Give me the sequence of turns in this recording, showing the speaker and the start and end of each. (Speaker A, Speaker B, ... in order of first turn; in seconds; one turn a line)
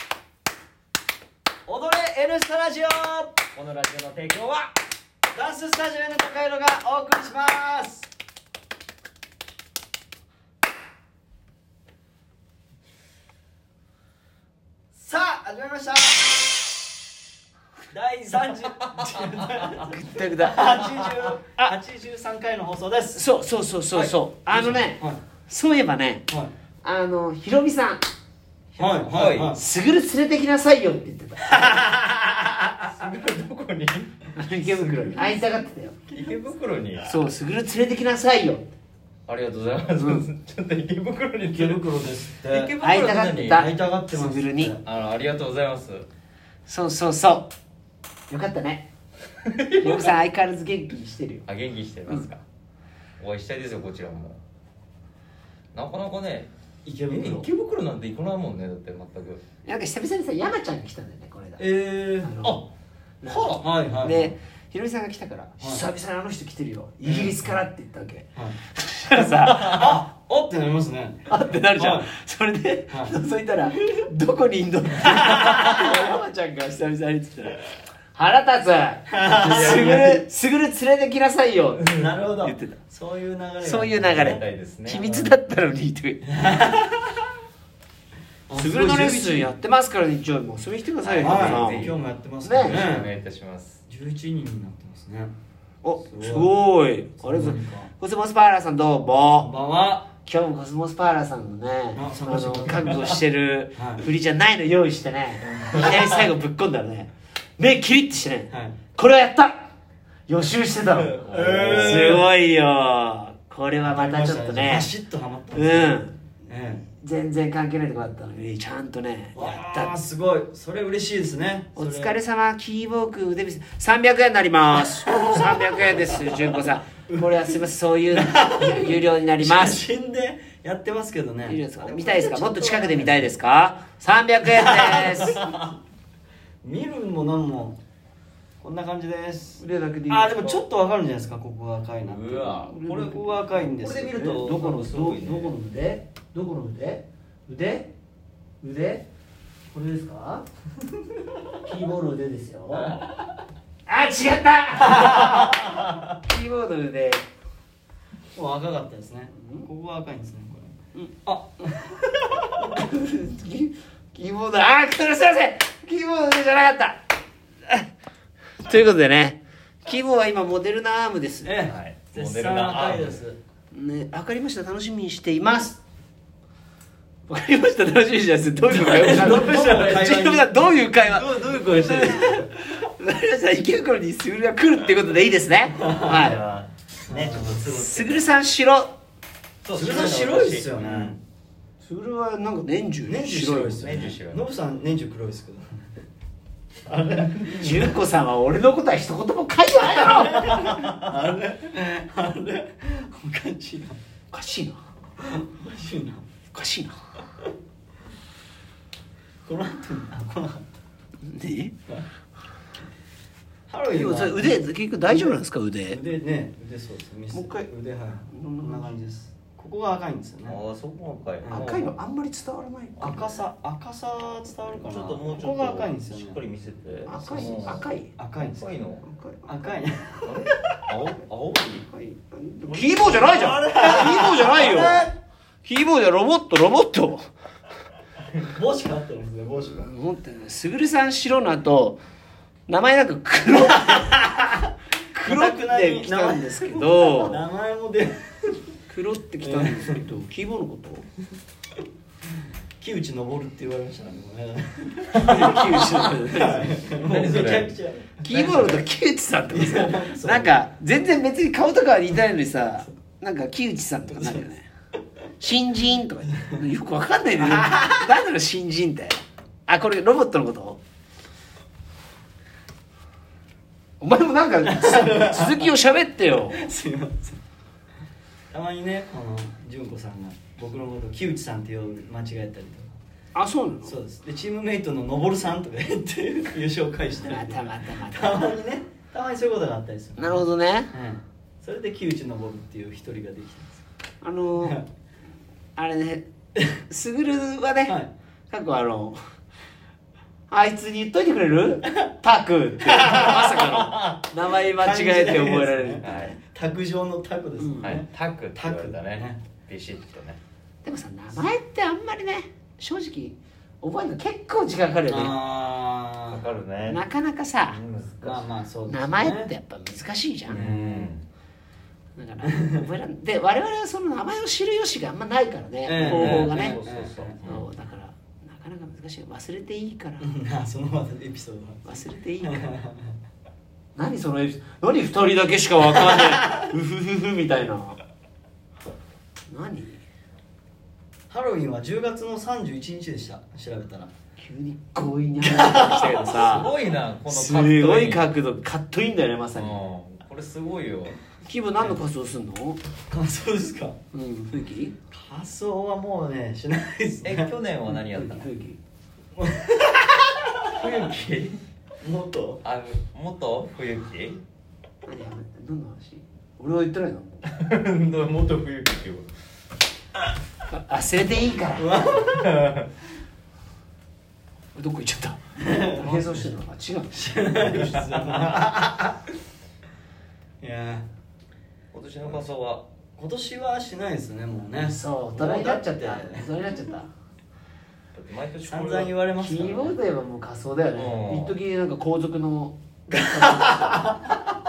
Speaker A: 1.6-3.4
Speaker B: 3.5-4.7
Speaker A: 5.3-8.1
Speaker A: 14.9-16.3
Speaker A: 17.9-23.2
Speaker B: 18.8-19.1
Speaker C: 19.8-21.7
Speaker C: 23.1-26.2
Speaker A: 23.9-25.2
Speaker C: 26.8-28.0
Speaker A: 28.8-29.6
Speaker B: 29.1-29.5
Speaker C: 29.5-31.9
Speaker B: 32.8-34.1
Speaker C: 34.3-36.0
Speaker A: 34.7-35.4
Speaker B: 36.1-37.2
Speaker C: 37.0-38.6
Speaker B: 39.3-41.8
Speaker C: 39.9-40.3
Speaker A: 41.5-42.7
Speaker B: 42.4-43.7
Speaker C: 42.8-44.8
Speaker A: 43.5-44.8
Speaker B: 44.8-46.1
Speaker C: 46.7-47.5
Speaker C: 48.3-48.9
Speaker B: 49.4-50.1
Speaker C: 49.8-51.5
Speaker B: 51.5-52.4
Speaker B: 53.2-54.4
Speaker B: 55.7-56.5
Speaker A: 56.8-57.5
Speaker B: 57.1-59.4
Speaker C: 59.6-62.7
Speaker A: 61.6-62.3
Speaker C: 63.2-70.0
Speaker B: 63.2-63.7
Speaker A: 63.6-64.3
Speaker A: 65.6-65.8
Speaker A: 67.0-67.5
Speaker A: 69.7-72.1
Speaker C: 71.3-77.6
Speaker A: 72.9-73.2
Speaker C: 78.1-82.8
Speaker A: 79.1-80.2
Speaker A: 81.9-84.4
Speaker C: 83.6-86.2
Speaker B: 84.1-85.3
Speaker A: 86.2-87.1
Speaker A: 88.5-89.5
Speaker C: 88.5-91.9
Speaker B: 91.0-92.0
Speaker A: 91.2-93.1
Speaker C: 92.4-92.9
Speaker B: 92.6-93.8
Speaker A: 93.9-95.3
Speaker C: 95.8-99.5
Speaker A: 96.0-96.5
Speaker A: 97.2-97.9
Speaker A: 99.3-100.1
Speaker C: 100.2-109.6
Speaker A: 101.9-103.2
Speaker A: 103.7-104.0
Speaker B: 105.4-106.0
Speaker A: 105.7-105.9
Speaker A: 108.5-108.8
Speaker C: 110.3-114.9
Speaker A: 111.1-112.2
Speaker B: 111.2-112.2
Speaker A: 113.8-116.8
Speaker C: 115.5-116.2
Speaker C: 117.0-119.9
Speaker A: 119.3-122.2
Speaker C: 121.8-129.8
Speaker A: 125.0-127.5
Speaker A: 128.1-133.2
Speaker C: 131.4-135.4
Speaker A: 134.5-135.8
Speaker A: 136.6-137.8
Speaker A: 138.6-144.5
Speaker C: 139.6-140.6
Speaker B: 142.0-143.2
Speaker C: 142.4-147.9
Speaker B: 143.8-145.5
Speaker C: 148.6-149.1
Speaker C: 149.7-150.4
Speaker C: 151.6-153.0
Speaker C: 153.9-157.2
Speaker A: 158.3-162.6
Speaker C: 159.3-159.7
Speaker C: 162.7-167.0
Speaker C: 168.6-171.5
Speaker A: 171.4-173.4
Speaker B: 171.6-173.2
Speaker C: 173.7-175.8
Speaker C: 177.3-186.4
Speaker A: 178.7-180.7
Speaker B: 180.9-182.4
Speaker A: 181.9-182.1
Speaker A: 185.8-186.3
Speaker B: 186.0-187.7
Speaker A: 187.1-188.2
Speaker C: 187.6-188.9
Speaker B: 189.6-191.2
Speaker A: 189.7-191.2
Speaker C: 191.8-193.9
Speaker A: 193.0-195.9
Speaker B: 193.8-194.4
Speaker B: 196.8-198.0
Speaker C: 197.5-200.9
Speaker A: 200.3-204.0
Speaker C: 204.3-204.8
Speaker A: 205.2-206.3
Speaker C: 206.5-206.9
Speaker A: 209.4-210.8
Speaker C: 211.2-211.7
Speaker A: 213.7-220.6
Speaker C: 213.9-216.0
Speaker C: 217.3-217.7
Speaker C: 218.3-218.9
Speaker B: 220.5-222.0
Speaker A: 221.4-221.7
Speaker C: 221.5-223.4
Speaker A: 223.0-226.4
Speaker B: 224.8-229.0
Speaker C: 227.1-228.1
Speaker A: 227.1-228.7
Speaker C: 229.0-229.7
Speaker A: 229.4-230.3
Speaker B: 230.2-231.9
Speaker C: 231.9-235.1
Speaker B: 232.7-234.4
Speaker A: 233.2-235.1
Speaker C: 235.6-237.3
Speaker A: 238.4-239.9
Speaker C: 239.6-242.0
Speaker C: 242.7-244.3
Speaker C: 245.1-247.4
Speaker A: 245.2-248.7
Speaker C: 248.9-251.1
Speaker A: 249.4-250.0
Speaker A: 252.8-258.8
Speaker C: 255.2-256.8
Speaker B: 257.0-257.7
Speaker C: 258.2-264.7
Speaker A: 259.5-260.5
Speaker A: 264.1-264.4
Speaker C: 265.4-270.8
Speaker A: 266.3-266.6
Speaker C: 274.0-276.6
Speaker A: 274.6-275.7
Speaker A: 276.5-277.4
Speaker A: 278.5-283.0
Speaker C: 283.3-283.9
Speaker A: 283.8-293.8
Speaker C: 287.2-288.5
Speaker C: 290.2-290.9
Speaker C: 294.2-294.8
Speaker C: 295.8-296.3
Speaker C: 296.9-297.9
Speaker A: 297.9-298.1
Speaker C: 298.5-299.2
Speaker C: 300.5-306.4
Speaker A: 302.9-303.7
Speaker A: 304.7-309.4
Speaker B: 306.0-306.4
Speaker C: 307.6-307.9
Speaker B: 307.8-310.4
Speaker C: 310.8-315.4
Speaker A: 315.1-316.4
Speaker B: 316.3-317.0
Speaker C: 316.9-317.8
Speaker B: 317.6-318.4
Speaker A: 318.2-319.5
Speaker C: 318.9-320.7
Speaker A: 320.5-321.1
Speaker B: 320.5-321.2
Speaker C: 322.1-326.8
Speaker A: 325.8-327.4
Speaker B: 326.0-327.6
Speaker C: 327.4-330.2
Speaker A: 330.2-333.1
Speaker C: 331.8-332.7
Speaker C: 333.9-338.0
Speaker C: 339.5-340.0
Speaker A: 341.3-344.1
Speaker C: 344.4-349.8
Speaker A: 345.4-346.3
Speaker B: 346.3-348.3
Speaker B: 349.5-351.1
Speaker C: 351.4-352.8
Speaker A: 353.1-354.0
Speaker C: 354.1-354.9
Speaker A: 355.1-357.5
Speaker B: 357.2-358.5
Speaker C: 357.9-358.8
Speaker A: 359.3-360.8
Speaker B: 360.8-361.6
Speaker A: 362.0-362.6
Speaker B: 362.6-364.4
Speaker C: 365.1-367.4
Speaker B: 367.4-369.3
Speaker C: 370.7-371.9
Speaker A: 371.8-372.6
Speaker B: 372.4-372.9
Speaker C: 374.7-377.3
Speaker A: 375.6-376.4
Speaker A: 377.1-379.1
Speaker B: 377.9-378.7
Speaker A: 380.6-381.1
Speaker B: 381.9-382.9
Speaker A: 382.2-382.5
Speaker A: 383.1-386.5
Speaker C: 384.8-387.1
Speaker B: 388.1-389.1
Speaker A: 388.6-389.9
Speaker C: 389.4-394.1
Speaker B: 390.9-391.6
Speaker A: 393.6-394.3